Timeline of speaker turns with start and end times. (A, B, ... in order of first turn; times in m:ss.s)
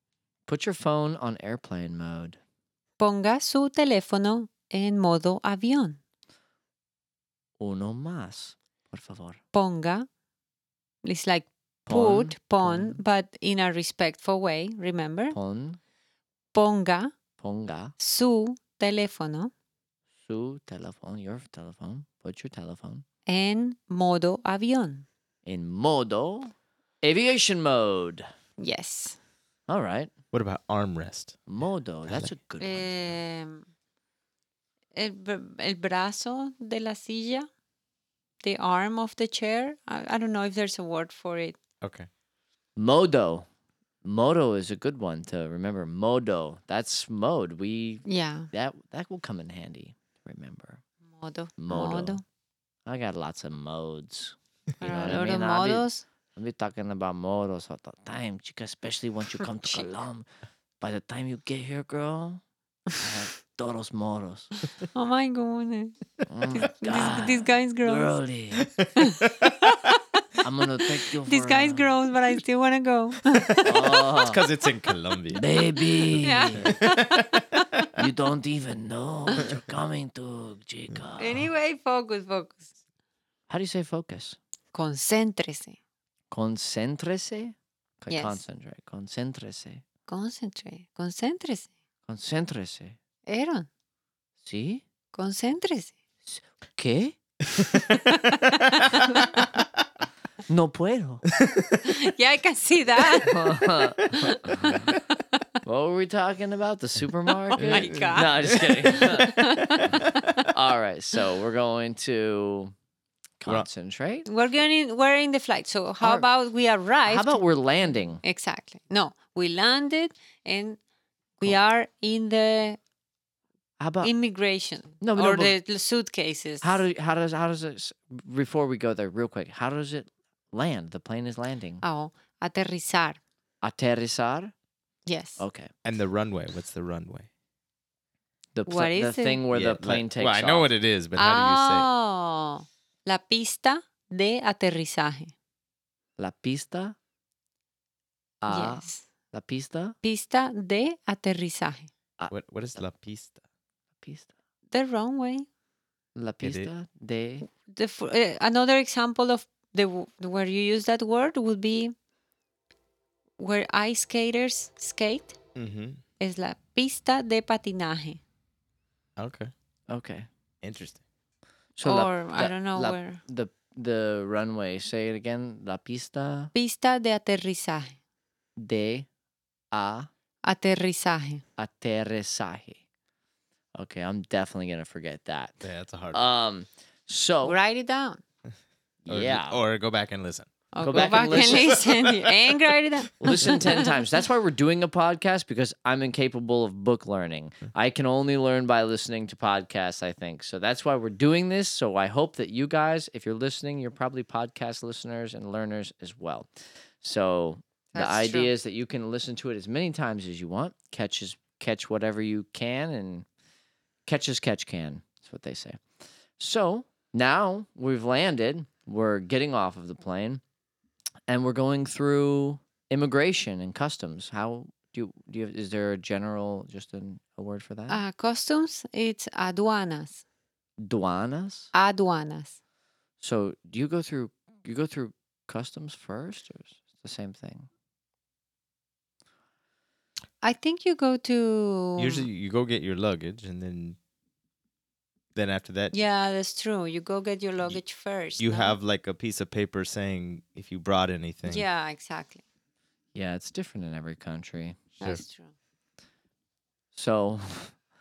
0:00.5-0:02.4 A
0:03.0-0:06.0 B
0:07.6-0:09.4 A
0:09.5-0:10.1 B
0:11.0-0:15.4 B
0:11.9-0:13.0 A
0:15.3-0:15.8 A
0:16.5-0:17.1 B
0:17.4-0:18.0 A
0:18.0-0:19.5 B
0:20.2-0:23.0 A
0:23.3-0:25.1 B
0:25.4-0:28.3 A
0:28.6-0:29.2 B
0:29.7-0:30.1 A
0:30.3-0:31.4 C
0:31.5-0:32.9 A
0:32.6-0:33.7 B
0:34.9-0:37.5 B
0:38.4-0:41.6 B
0:41.8-0:42.1 C
0:42.8-0:43.5 A
0:44.0-0:50.8 A
0:48.1-0:48.5 B
0:51.1-0:52.2 B
0:51.6-0:52.2 A
0:52.9-1:00.3 A
0:54.8-0:56.0 B
1:00.8-1:02.4 A
1:03.0-1:04.5 A
1:04.9-1:06.0 B
1:06.3-1:08.7 A
1:06.5-1:08.2 B
1:08.6-1:09.5 C
1:09.0-1:10.0 B
1:10.4-1:11.9 A
1:11.2-1:14.1 B
1:13.6-1:14.4 A
1:14.2-1:15.4 C
1:15.3-1:16.8 A
1:16.2-1:17.9 B
1:16.6-1:17.4 C
1:17.9-1:21.5 A
1:21.2-1:22.7 B
1:23.5-1:24.4 A
1:24.7-1:25.8 B
1:26.3-1:29.8 A
1:28.1-1:28.4 B
1:30.1-1:31.7 B
1:32.1-1:33.0 A
1:33.3-1:33.7 B
1:34.4-1:34.8 A
1:35.1-1:36.0 B
1:36.2-1:37.2 A
1:38.0-1:39.5 B
1:40.5-1:41.3 A
1:41.4-1:41.8 C
1:41.8-1:45.4 B
1:43.2-1:44.8 A
1:44.0-1:44.9 C
1:45.6-1:50.0 A
1:47.5-1:50.5 B
1:47.6-1:50.1 C
1:50.5-1:52.7 A
1:53.4-1:54.3 A
1:54.2-1:57.4 B
1:56.0-1:56.3 A
1:57.0-1:58.2 A
1:58.2-2:00.8 B
2:01.4-2:02.8 B
2:03.8-2:04.1 A
2:04.0-2:06.8 B
2:05.0-2:05.6 A
2:06.6-2:11.8 A
2:11.8-2:13.2 B
2:13.6-2:14.5 A
2:15.1-2:15.4 B
2:15.4-2:15.7 A
2:15.8-2:17.3 C
2:18.6-2:20.7 A
2:18.7-2:19.4 B
2:19.5-2:21.9 C
2:21.2-2:25.3 B
2:26.2-2:27.0 A
2:28.4-2:30.0 A
2:28.5-2:29.0 B
2:30.0-2:31.9 B
2:32.2-2:32.8 A
2:32.3-2:33.4 C
2:34.0-2:34.3 A
2:34.7-2:35.5 B
2:36.2-2:37.5 A
2:36.4-2:36.7 C
2:37.5-2:41.9 B
2:43.4-2:45.4 B
2:45.6-2:46.0 C
2:46.2-2:48.2 B
2:49.2-2:49.5 C
2:49.9-2:50.3 A
2:50.6-2:51.0 C
2:51.8-2:56.5 A
2:51.8-2:53.2 B
2:56.5-2:58.0 B
2:58.6-2:59.1 A
2:59.7-3:00.1 A
3:00.4-3:01.4 B
3:01.6-3:02.8 A
3:03.8-3:05.6 A
3:05.6-3:06.2 C
3:06.1-3:07.6 A
3:07.4-3:08.2 B
3:09.0-3:09.6 A
3:09.1-3:12.6 C
3:10.7-3:14.0 B
3:10.8-3:11.8 A
3:13.2-3:33.3 A
3:27.9-3:28.5 B
3:34.1-3:35.8 A
3:36.4-3:40.4 A
3:41.3-3:48.0 A
3:47.9-3:50.2 B
3:50.8-3:51.7 A
3:51.7-3:52.6 B
3:53.2-3:57.7 A
4:00.4-4:02.3 B
4:02.0-4:04.0 C
4:05.4-4:05.9 C
4:05.9-4:08.8 B
4:08.4-4:11.6 C
4:11.5-4:12.4 B
4:13.1-4:14.9 A
4:15.0-4:15.5 B
4:16.9-4:17.7 A